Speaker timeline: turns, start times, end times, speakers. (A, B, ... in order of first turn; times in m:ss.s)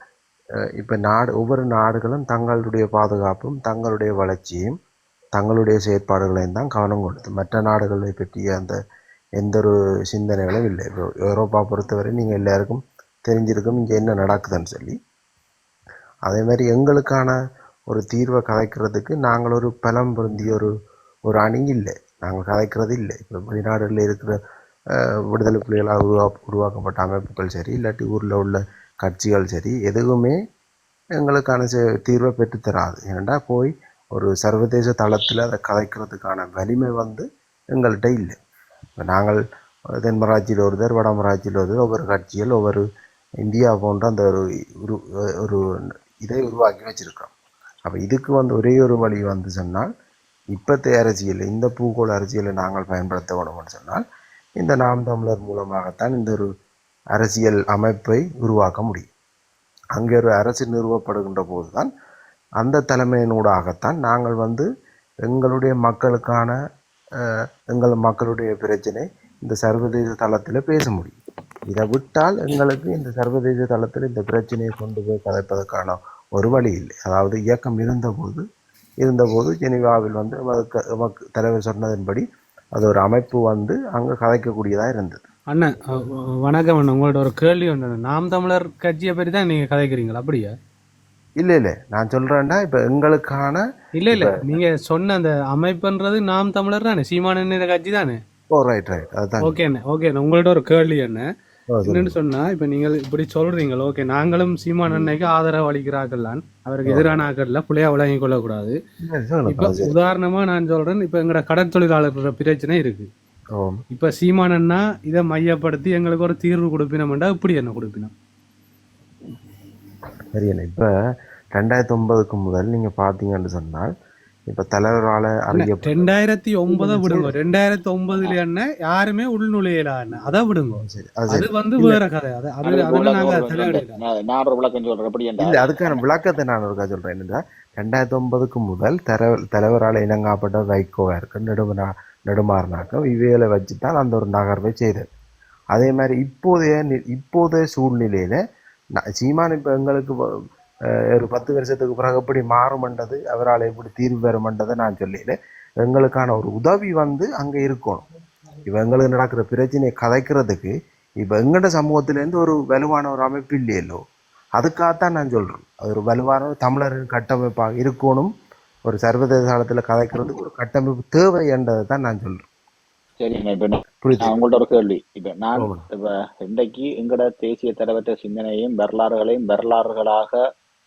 0:00.8-0:04.8 A
0:05.4-0:08.8 A
0:09.4-0:15.0 A
0:16.2-0:17.4 A
0:17.9-0:20.7 A
0:21.3-0:24.4 A
0:25.3-0:30.4 A
0:31.2-0:38.4 A
0:39.0-0:39.4 A
0:40.0-0:42.8 A
0:43.4-0:45.6 A
0:46.2-0:47.3 A
0:47.9-0:49.9 A
0:50.5-0:54.0 A
0:54.6-0:56.5 A
0:57.1-0:59.0 A
0:59.9-1:01.9 A
1:02.6-1:04.6 A
1:05.2-1:06.5 A
1:07.7-1:11.2 A
1:11.7-1:18.4 A
1:19.0-1:25.2 A
1:25.5-1:30.5 B
1:31.4-1:34.6 A
1:34.0-1:38.2 B
1:38.5-1:39.6 A
1:39.4-1:41.2 B
1:41.7-1:42.1 A
1:41.9-1:48.8 B
1:44.9-1:45.1 A
1:46.9-1:47.2 A
1:49.0-1:49.9 A
1:49.5-1:53.1 B
1:53.5-1:53.8 A
1:53.9-1:58.1 B
2:00.3-2:00.9 A
2:01.5-2:03.9 A
2:04.5-2:06.1 A
2:05.5-2:14.0 B
2:06.7-2:07.3 A
2:10.8-2:12.0 A
2:12.6-2:16.0 C
2:15.4-2:25.0 A
2:25.7-2:28.4 A
2:29.0-2:30.1 A
2:31.1-2:38.0 A
2:38.7-2:44.0 A
2:44.6-2:48.3 A
2:48.9-2:52.4 A
2:53.2-3:00.4 C
2:54.0-2:54.3 A
2:55.6-2:55.8 A